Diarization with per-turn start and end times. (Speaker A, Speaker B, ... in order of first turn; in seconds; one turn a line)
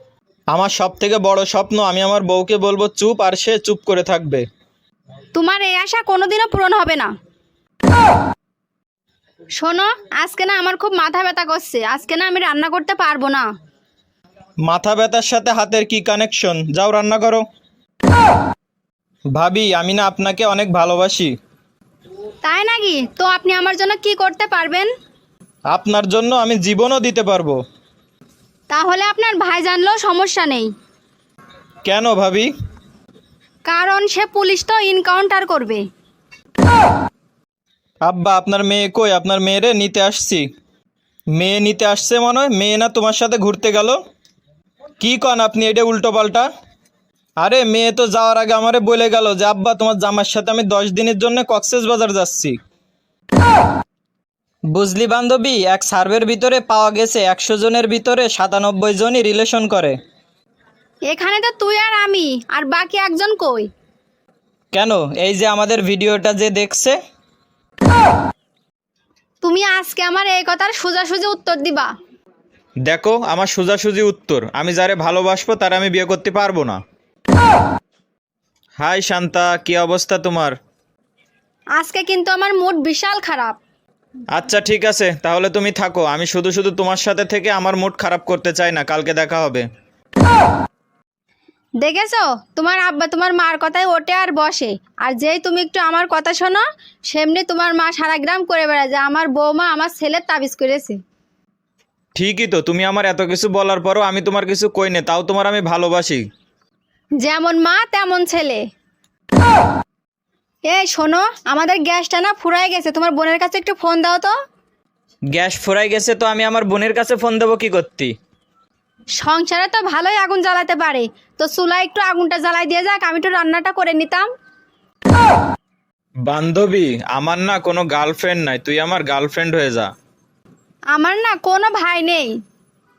Speaker A: 0.5-4.4
Speaker B: 5.3-7.1
Speaker B: 9.6-13.5
Speaker A: 14.7-17.4
Speaker A: 19.4-21.3
Speaker B: 22.4-24.9
Speaker A: 25.7-27.6
Speaker B: 28.7-30.7
Speaker A: 31.9-32.5
Speaker B: 33.7-35.8
Speaker A: 38.1-40.5
Speaker A: 41.4-44.0
Speaker A: 45.0-46.5
Speaker A: 47.4-52.6
Speaker A: 54.7-60.0
Speaker B: 61.1-63.7
Speaker A: 64.7-67.0
Speaker B: 69.4-71.9
Speaker A: 72.9-76.8
Speaker A: 78.8-80.6
Speaker B: 81.8-83.6
Speaker A: 84.3-89.7
Speaker B: 91.8-101.0
Speaker A: 102.2-106.2
Speaker B: 107.2-108.6
Speaker B: 110.7-114.3
Speaker A: 115.3-118.1
Speaker B: 119.2-124.3
Speaker A: 126.3-129.9
Speaker B: 130.9-132.4